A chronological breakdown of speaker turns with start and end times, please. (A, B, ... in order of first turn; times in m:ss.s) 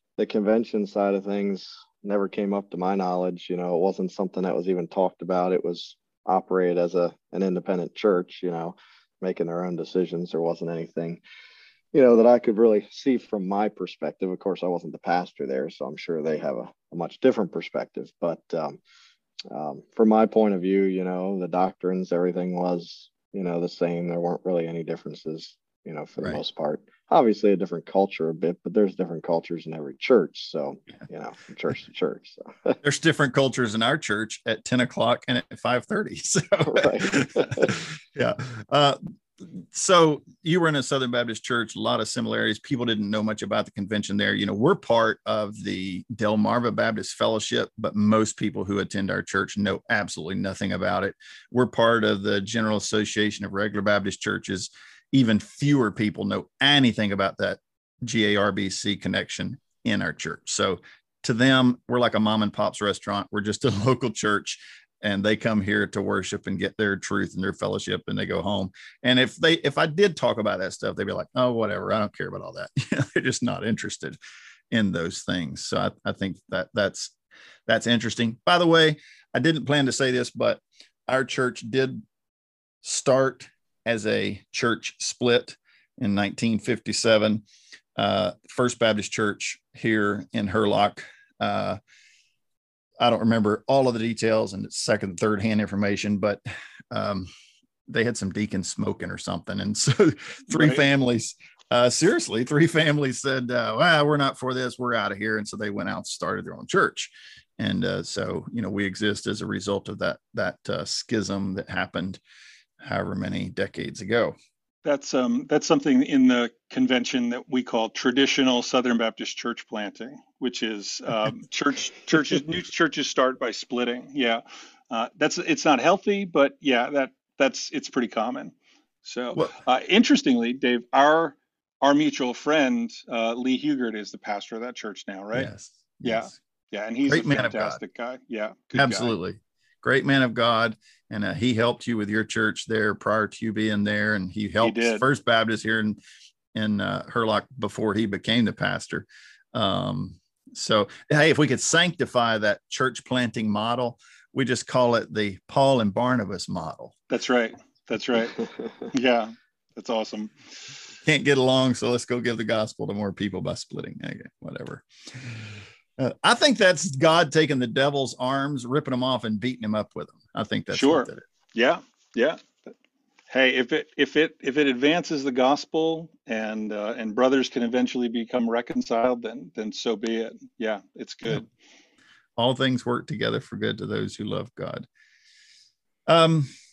0:00.2-0:11.2 A
0:11.9-0:18.8 A
0:19.5-0:32.8 A
0:32.8-1:14.2 B
0:36.6-0:37.8 A
1:14.7-1:17.1 B
1:17.7-1:22.0 B
1:22.8-1:27.4 B
1:28.0-1:31.8 B
1:33.0-1:36.4 B
1:36.9-1:37.3 B
1:37.9-1:52.2 B
1:40.5-1:40.8 C
1:52.8-1:54.4 B
1:54.8-2:15.5 C
2:15.3-2:16.3 B
2:16.0-2:19.1 C
2:17.0-2:17.8 B
2:18.7-2:26.0 B
2:24.6-2:25.0 C
2:26.5-2:36.9 B
2:37.1-2:38.4 C
2:38.9-2:40.3 C
2:41.0-2:51.2 B
2:50.7-2:52.7 C
2:53.3-3:01.5 C
3:02.4-3:04.8 B
3:06.1-3:06.5 B